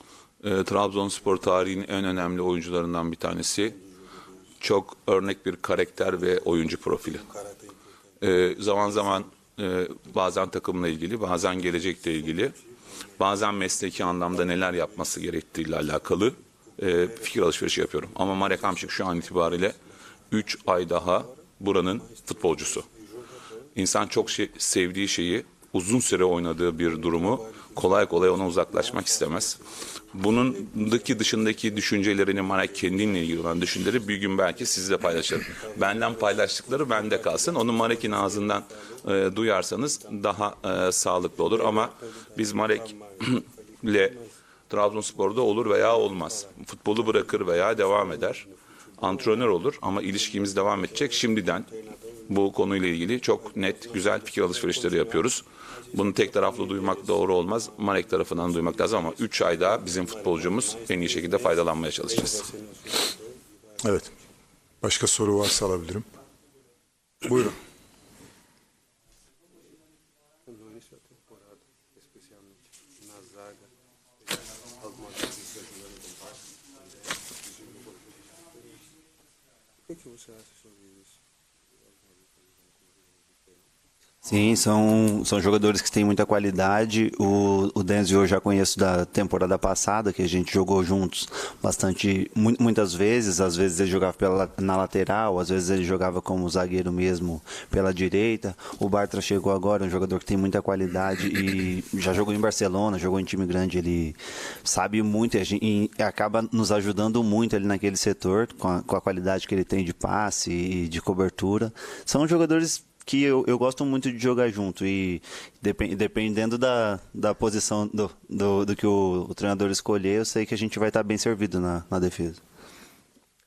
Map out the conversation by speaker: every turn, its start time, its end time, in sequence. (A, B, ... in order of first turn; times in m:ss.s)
0:00.4-0:03.8 A
0:03.6-0:04.4 B
0:04.6-0:07.2 A
0:06.1-0:09.3 B
0:08.2-0:12.6 A
0:11.8-0:13.3 B
0:13.2-0:19.8 A
0:13.8-0:15.2 B
0:16.8-0:23.7 B
0:20.3-0:22.9 A
0:23.8-0:29.6 A
0:26.8-0:34.8 B
0:30.1-0:44.2 A
0:35.4-0:39.2 B
0:39.8-0:40.7 B
0:41.3-0:44.4 B
0:44.7-0:48.4 A
0:45.1-0:52.4 B
0:49.0-0:51.7 A
0:52.3-1:02.5 A
0:53.3-1:04.1 B
1:03.8-1:04.1 C
1:04.8-1:06.1 C
1:07.2-1:07.6 C
1:10.4-1:13.7 B
1:14.4-1:16.5 B
1:17.2-1:18.2 B
1:19.9-1:21.2 B
1:21.8-1:23.7 B
1:24.2-2:02.4 D